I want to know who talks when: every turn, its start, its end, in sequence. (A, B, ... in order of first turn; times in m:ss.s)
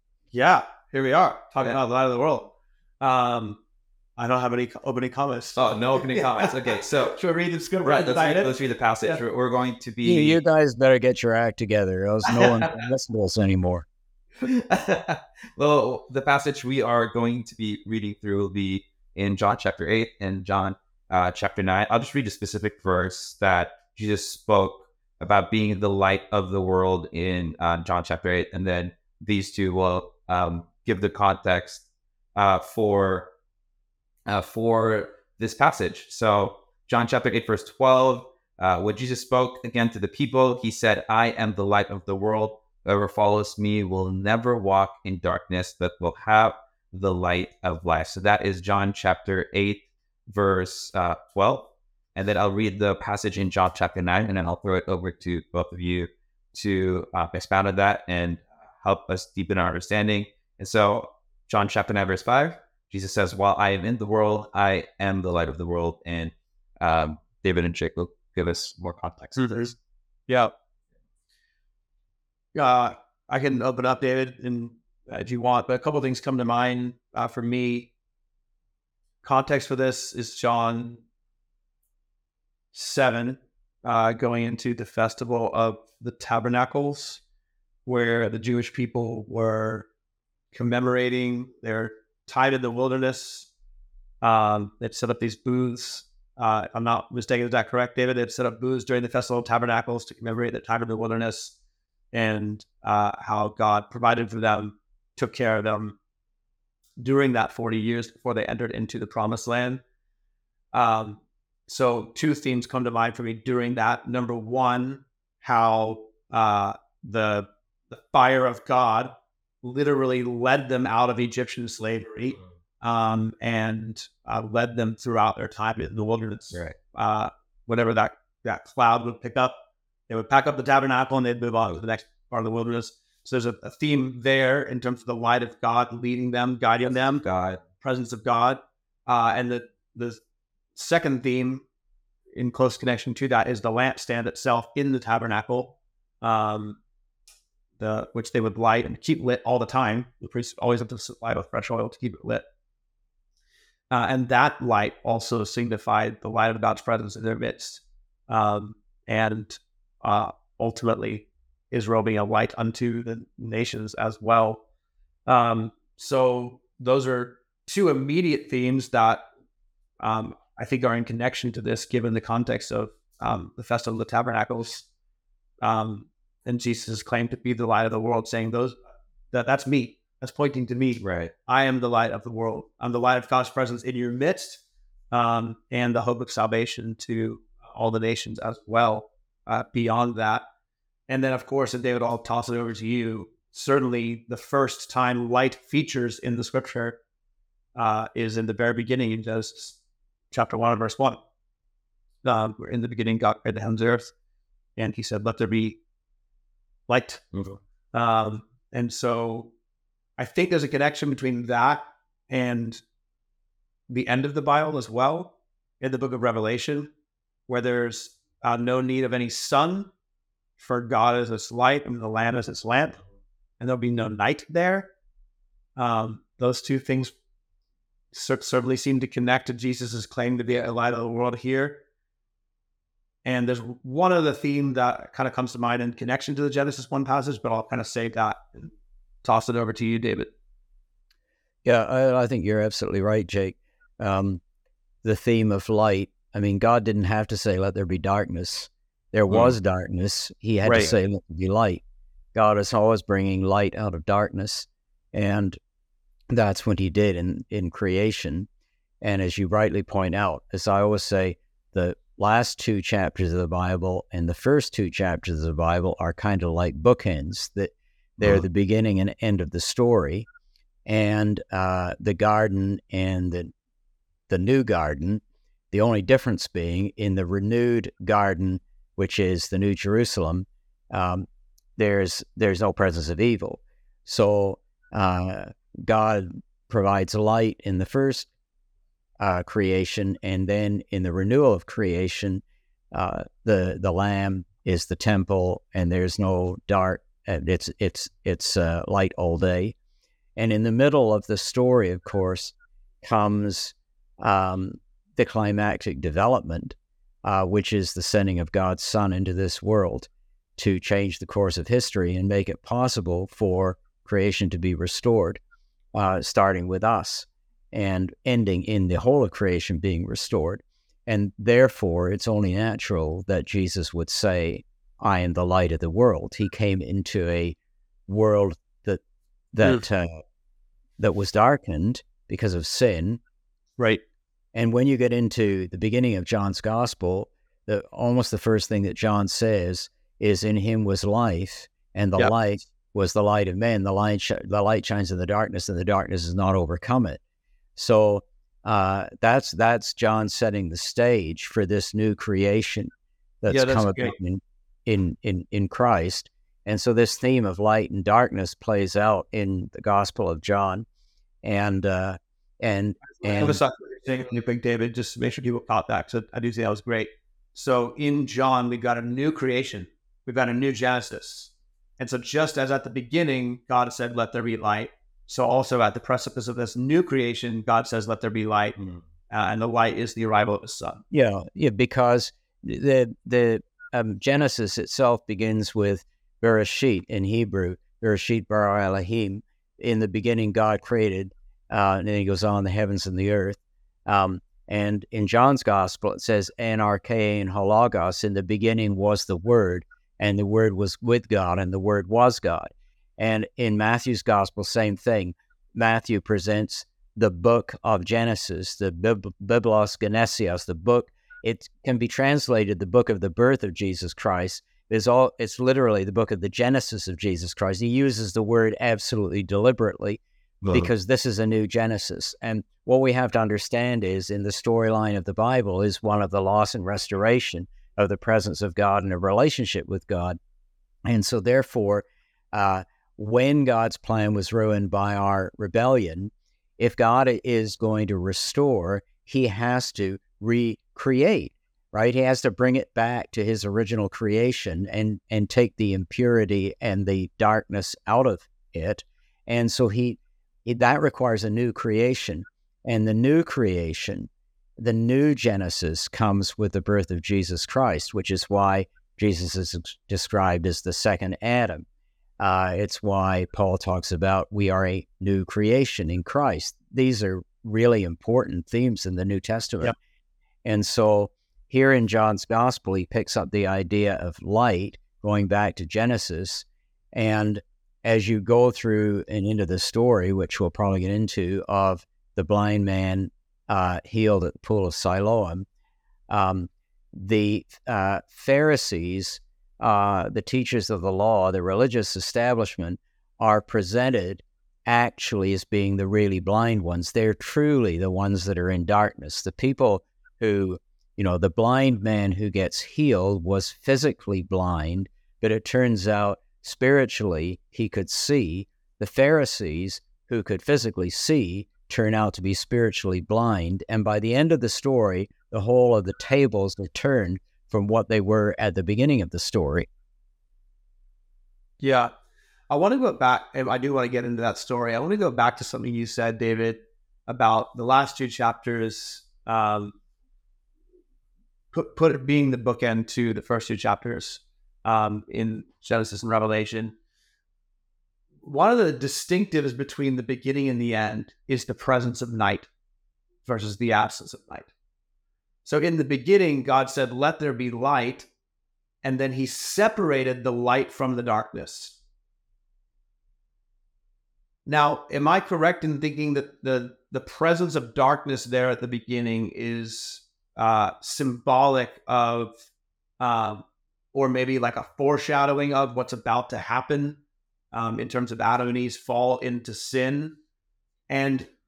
0:00.3-0:03.6 A
0:04.2-0:09.2 A
0:05.6-0:07.2 B
0:07.8-0:10.4 B
0:10.0-0:13.9 C
0:14.4-0:33.3 B
0:34.3-1:09.6 B
1:09.4-1:09.7 A
1:12.6-1:17.9 A
1:19.2-1:21.0 A
1:22.7-1:27.2 A
1:27.9-1:29.9 A
1:30.5-1:33.5 A
1:34.2-1:41.6 A
1:42.1-1:46.0 A
1:47.0-1:49.8 A
1:50.7-2:17.2 A
2:17.2-2:17.6 B
2:17.8-2:20.2 A
2:20.8-2:21.6 A
2:22.3-2:26.8 A
2:27.8-2:32.4 A
2:33.9-2:44.6 A
2:45.3-2:49.3 A
2:50.0-2:54.9 A
2:55.6-2:58.8 A
2:59.3-3:10.4 A
3:01.0-3:01.3 B
3:11.1-3:17.0 A
3:17.8-3:19.8 A
3:20.3-3:21.2 A
3:22.2-3:24.1 A
3:24.8-3:25.8 A
3:26.9-3:27.2 A
3:27.3-3:27.6 B
3:27.9-3:29.5 A
3:30.2-3:32.8 A
3:33.9-3:36.9 A
3:37.5-3:39.9 A
3:40.6-3:43.0 A
3:43.6-3:44.9 A
3:45.8-3:47.1 A
3:48.1-3:51.8 A
3:53.2-3:58.7 A
3:59.2-4:00.3 A
4:01.6-4:04.4 C
4:05.0-4:11.8 C
4:09.3-4:09.6 B
4:10.6-4:10.9 A
4:12.4-4:15.6 C
4:16.3-4:18.5 C
4:19.0-4:30.3 C
4:30.9-4:33.5 C
4:34.3-4:48.3 C
4:49.2-4:59.8 C
5:00.4-5:15.4 C
5:15.9-5:29.0 C
5:29.5-5:30.2 C
5:31.0-5:33.2 C
5:34.5-5:47.2 C
5:47.8-5:52.9 C
5:53.4-6:00.9 C
5:53.5-5:54.2 A
6:01.4-6:03.6 C
6:03.3-6:18.8 A
6:19.3-6:21.0 A
6:21.1-7:10.4 C
7:00.6-7:00.9 B
7:11.1-7:41.9 C
7:42.4-7:49.9 C
7:50.6-8:05.7 C
8:06.3-8:39.9 C
8:41.8-8:42.1 A
8:42.7-8:50.0 A
8:51.7-8:57.0 A
8:58.4-9:02.7 A
9:03.4-9:04.7 A
9:05.6-9:08.3 A
9:09.0-9:12.0 A
9:14.7-9:22.6 A
9:23.2-9:27.2 A
9:27.7-9:30.4 A
9:31.1-9:31.5 A